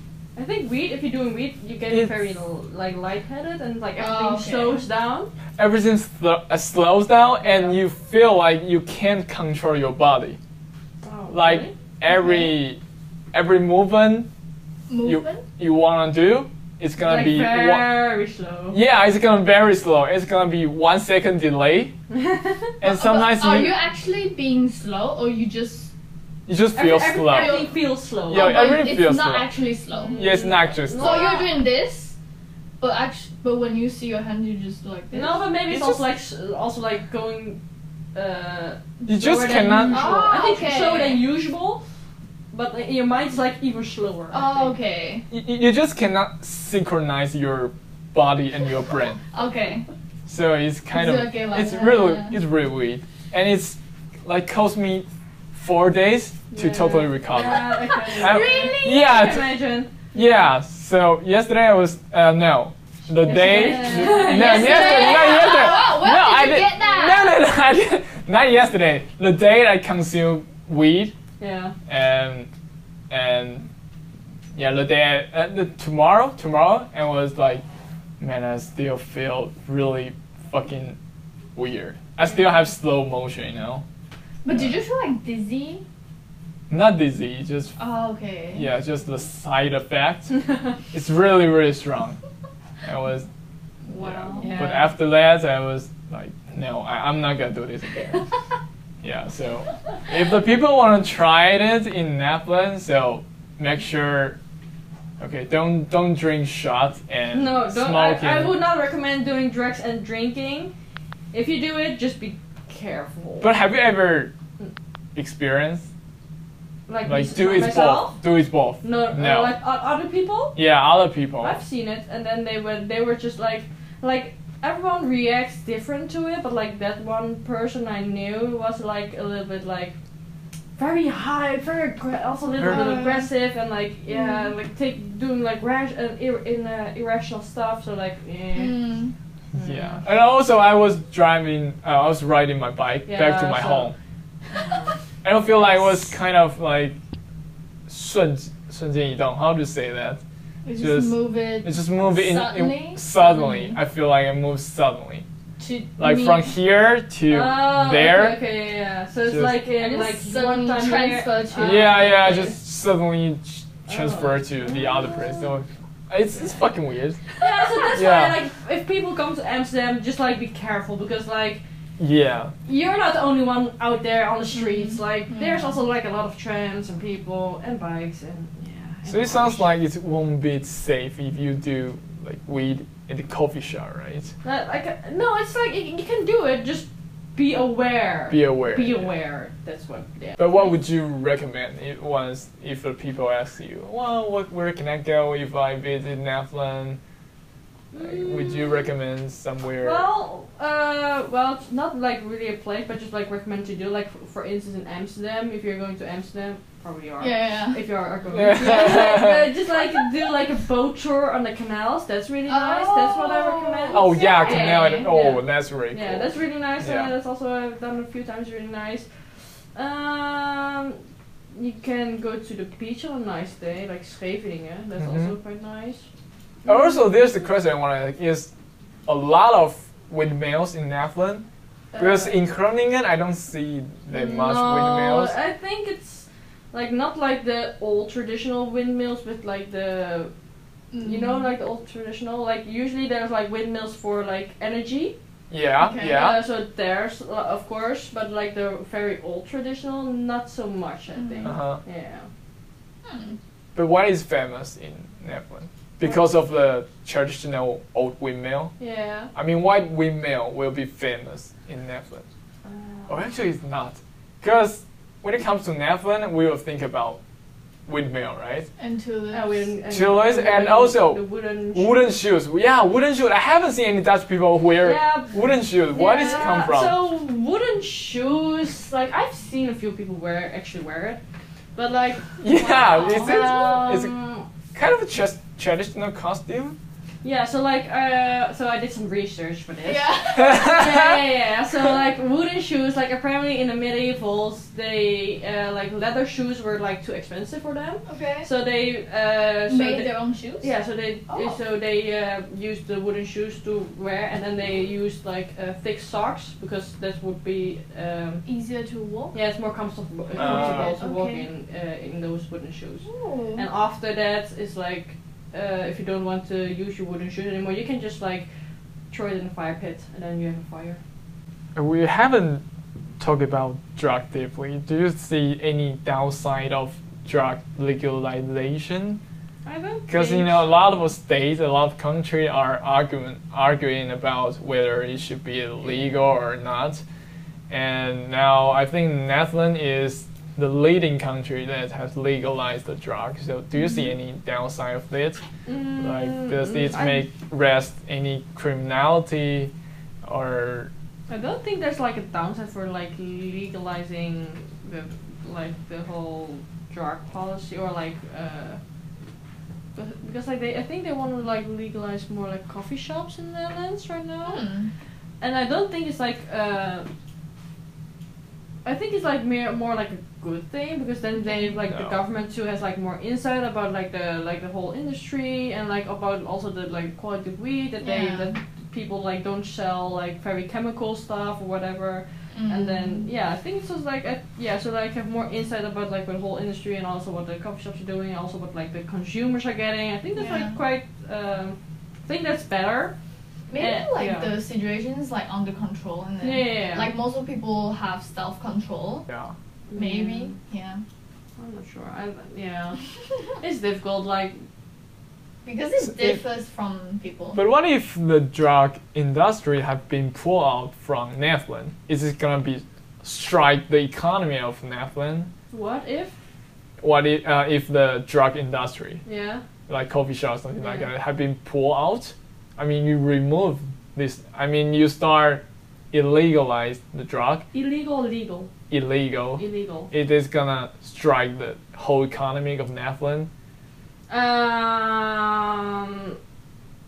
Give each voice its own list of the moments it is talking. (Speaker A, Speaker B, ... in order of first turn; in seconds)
Speaker A: 0.4-5.3, 7.4-7.8, 11.0-11.7, 17.0-18.8, 22.1-22.7, 26.7-28.7, 29.9-31.5, 35.1-37.6, 38.1-41.8, 42.5-44.8, 56.5-60.0, 63.2-65.7, 71.4-71.8, 93.9-94.9, 107.3-110.7, 111.3-113.5, 116.9-118.2, 118.8-120.6, 121.4-130.0, 130.8-138.9, 139.6-140.1, 143.1-143.9, 144.5-145.0, 157.3-162.5, 163.9-165.6, 167.4-171.6, 172.7-179.7, 184.4-190.8, 197.9-198.9, 199.8-219.1, 219.7-221.0, 221.5-226.1, 231.9-232.4, 234.1-240.3, 241.0-245.2, 246.0-252.3, 258.8-259.3, 262.6-263.2, 269.3-272.1, 274.8-281.2, 281.8-284.5, 287.2-308.4, 309.3-318.5, 319.1-321.0, 329.6-331.0, 345.7-347.3, 351.3-358.8, 359.9-364.6, 365.4-367.1, 368.9-393.1, 393.8-394.6, 396.4-397.1, 399.9-400.6, 401.6-403.0, 403.6-404.6, 415.7-416.4, 419.2-419.6, 427.7-428.7, 429.6-430.1, 434.3-436.4
Speaker B: 4.0-4.8, 12.1-12.5, 14.9-15.5, 22.8-25.9, 27.3-30.3, 30.9-32.1, 32.8-35.5, 39.6-41.3, 44.3-45.3, 49.3-49.9, 50.9-52.4, 57.7-59.4, 63.2-67.5, 84.4-85.8, 87.8-88.7, 94.0-94.6, 132.7-133.2, 134.1-134.5, 138.6-139.1, 150.7-153.8, 155.6-156.5, 159.8-162.5, 174.6-175.8, 207.2-207.9, 208.7-209.0, 212.5-215.1, 240.9-241.4, 245.8-246.2, 251.2-251.5, 253.1-253.4, 268.8-269.7, 282.9-283.5, 289.8-291.1, 298.1-298.5, 299.7-300.7, 301.3-301.6, 308.4-309.4, 310.4-311.5, 313.1-313.7, 343.8-344.1, 364.4-364.9, 371.4-371.8, 378.0-378.6, 382.5-383.3, 390.4-390.8, 393.7-399.3, 399.9-401.0, 405.6-407.6
Speaker C: 5.6-10.4, 11.3-12.8, 13.3-14.3, 15.1-17.9, 18.7-21.9, 22.8-23.8, 26.5-27.6, 28.3-29.5, 30.2-31.3, 35.7-36.0, 39.1-40.4, 45.3-49.2, 50.3-59.5, 60.1-71.2, 71.9-72.5, 73.1-73.7, 74.5-77.6, 78.2-81.0, 81.5-83.8, 84.5-84.8, 86.7-87.8, 88.5-90.3, 90.9-92.2, 92.8-93.3, 93.9-98.3, 99.0-104.4, 105.2-108.5, 113.4-114.3, 115.2-115.9, 117.0-119.5, 120.6-121.6, 132.6-133.2, 139.5-144.0, 145.2-147.0, 147.9-150.2, 150.8-155.3, 156.0-158.4, 159.3-159.7, 161.6-167.3, 167.9-168.4, 172.0-172.5, 179.1-184.3, 188.3-189.1, 190.4-197.0, 197.9-200.1, 208.3-209.5, 213.9-217.1, 225.0-225.4, 226.7-228.5, 229.1-231.4, 232.0-235.3, 245.5-246.4, 251.4-251.8, 253.8-258.7, 259.3-262.3, 263.1-267.2, 267.9-268.7, 269.9-277.0, 282.4-284.1, 284.7-286.8, 290.4-291.2, 310.4-311.0, 321.8-322.6, 323.2-329.2, 330.1-337.0, 337.7-345.4, 346.0-349.7, 350.2-350.9, 371.9-372.2, 399.3-399.6, 406.0-406.4, 407.5-415.5, 417.0-419.2, 419.9-427.7, 428.9-433.5